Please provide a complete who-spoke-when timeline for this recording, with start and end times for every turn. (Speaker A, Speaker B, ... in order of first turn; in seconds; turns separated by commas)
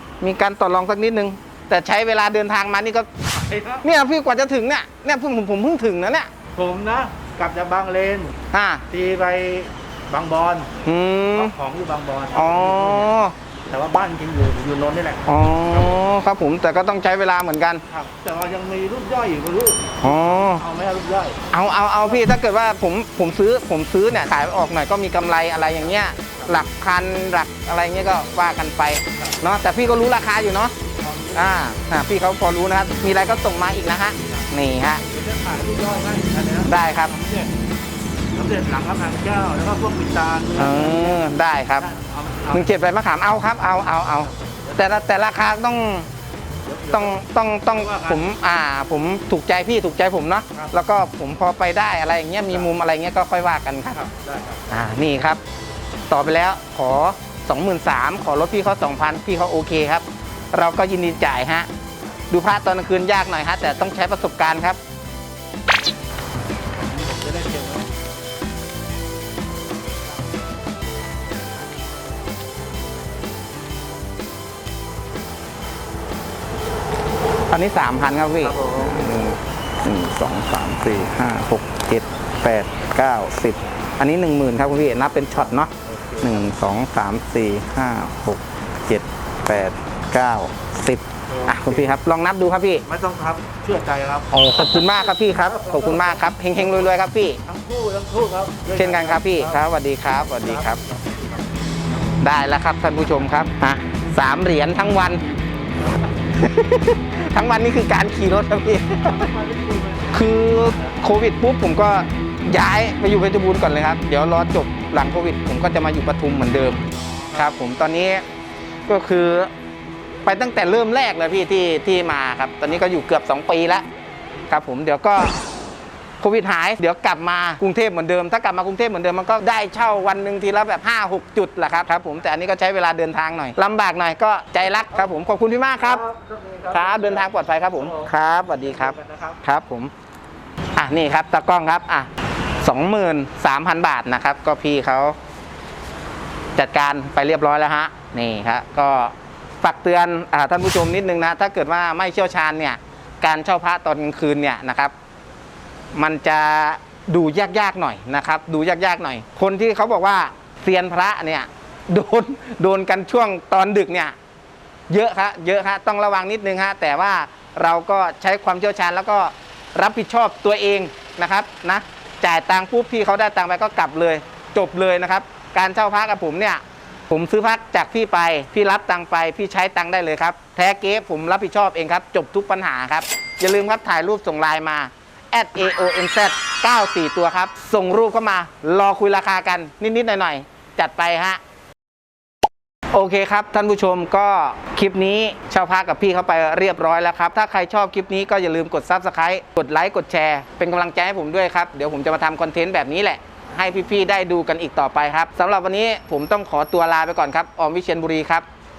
Speaker A: 0.2-3.1, Speaker B: 3.3-3.9, Speaker A: 3.8-6.3, Speaker B: 6.5-8.4, Speaker A: 8.5-8.8, Speaker B: 8.9-10.7, Speaker A: 10.8-11.5, Speaker B: 11.3-15.3, Speaker A: 12.3-13.3, Speaker A: 15.2-17.8, Speaker B: 17.9-21.4, Speaker A: 20.0-20.6, Speaker A: 21.5-30.7, Speaker B: 31.0-31.6, Speaker A: 31.3-35.0, Speaker B: 35.0-37.5, Speaker A: 36.7-37.1, Speaker B: 38.3-42.8, Speaker A: 40.6-41.9, Speaker A: 42.5-46.1, Speaker B: 44.1-45.0, Speaker B: 46.6-48.3, Speaker A: 46.9-54.0, Speaker B: 52.5-52.7, Speaker B: 53.9-54.6, Speaker A: 54.7-55.4, Speaker A: 56.1-61.7, Speaker A: 62.3-64.8, Speaker B: 66.8-67.9, Speaker A: 77.5-92.8, Speaker B: 78.4-79.0, Speaker B: 85.9-86.4, Speaker B: 91.3-91.9, Speaker B: 92.8-96.9, Speaker A: 94.3-97.4, Speaker B: 97.4-99.7, Speaker A: 98.8-100.8, Speaker B: 100.4-101.5, Speaker A: 102.2-105.2, Speaker A: 106.3-109.3, Speaker B: 109.0-111.0, Speaker A: 110.1-118.2, Speaker B: 117.1-117.5, Speaker A: 118.9-119.5, Speaker A: 120.2-123.8, Speaker A: 124.5-125.3, Speaker A: 126.2-136.0, Speaker B: 135.8-139.4, Speaker A: 136.7-139.9, Speaker A: 140.8-142.1, Speaker A: 142.6-145.2, Speaker A: 146.6-154.9, Speaker A: 155.9-164.1, Speaker A: 164.9-191.4, Speaker A: 192.9-208.4